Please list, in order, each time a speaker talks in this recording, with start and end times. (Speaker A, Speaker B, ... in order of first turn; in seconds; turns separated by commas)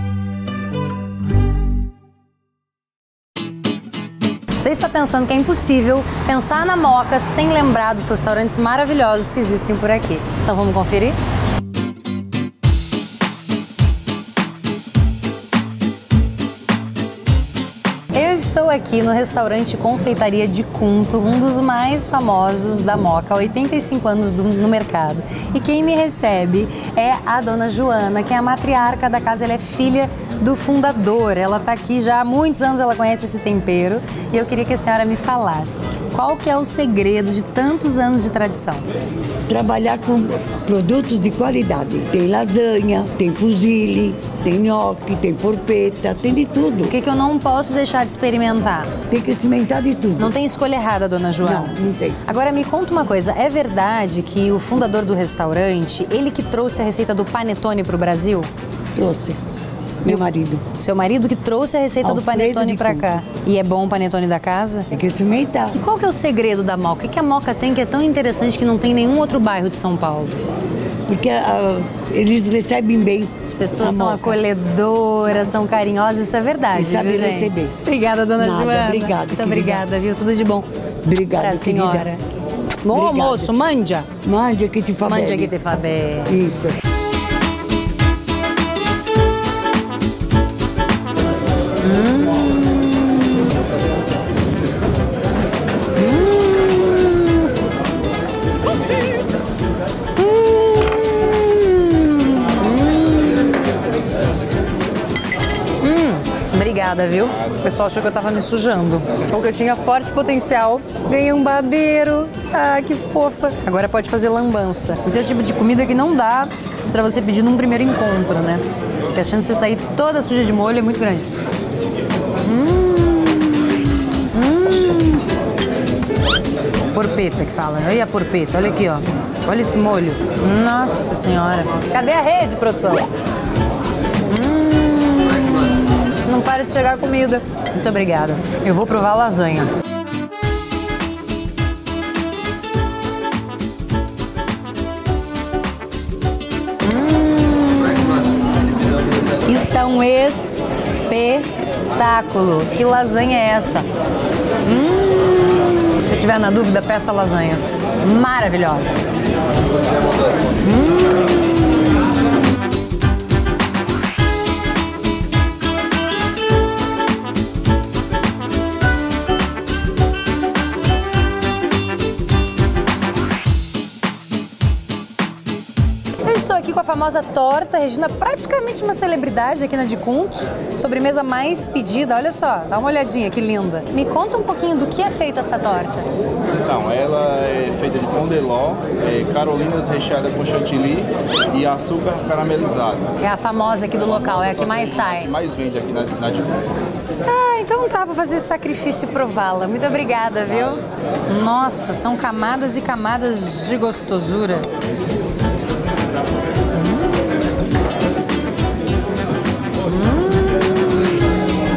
Speaker A: 4.6-11.2, Speaker A: 18.1-38.9, Speaker B: 39.5-46.9, Speaker A: 46.9-48.9, Speaker B: 49.1-50.4, Speaker A: 50.2-58.5, Speaker B: 51.4-52.3, Speaker B: 59.0-59.4, Speaker B: 60.0-60.6, Speaker A: 60.1-64.9, Speaker B: 62.0-63.0, Speaker B: 64.9-65.8, Speaker A: 65.8-70.4, Speaker B: 71.1-74.4, Speaker A: 73.4-80.7, Speaker B: 76.7-77.8, Speaker B: 78.4-79.8, Speaker B: 81.0-82.1, Speaker A: 81.3-82.2, Speaker A: 82.8-84.1, Speaker B: 82.9-83.5, Speaker B: 84.2-85.5, Speaker A: 85.0-86.3, Speaker B: 86.3-86.8, Speaker A: 91.8-93.5, Speaker A: 96.0-97.5, Speaker A: 100.2-103.7, Speaker A: 105.8-121.3, Speaker A: 122.4-125.3, Speaker A: 126.9-133.1, Speaker A: 134.3-139.7, Speaker A: 146.8-148.9, Speaker A: 149.4-153.8, Speaker A: 154.6-159.0, Speaker A: 160.6-161.8, Speaker A: 176.2-186.0, Speaker C: 186.6-193.2, Speaker A: 193.2-195.3, Speaker C: 194.0-196.8, Speaker A: 197.3-204.7, Speaker A: 206.8-207.0, Speaker A: 209.8-211.1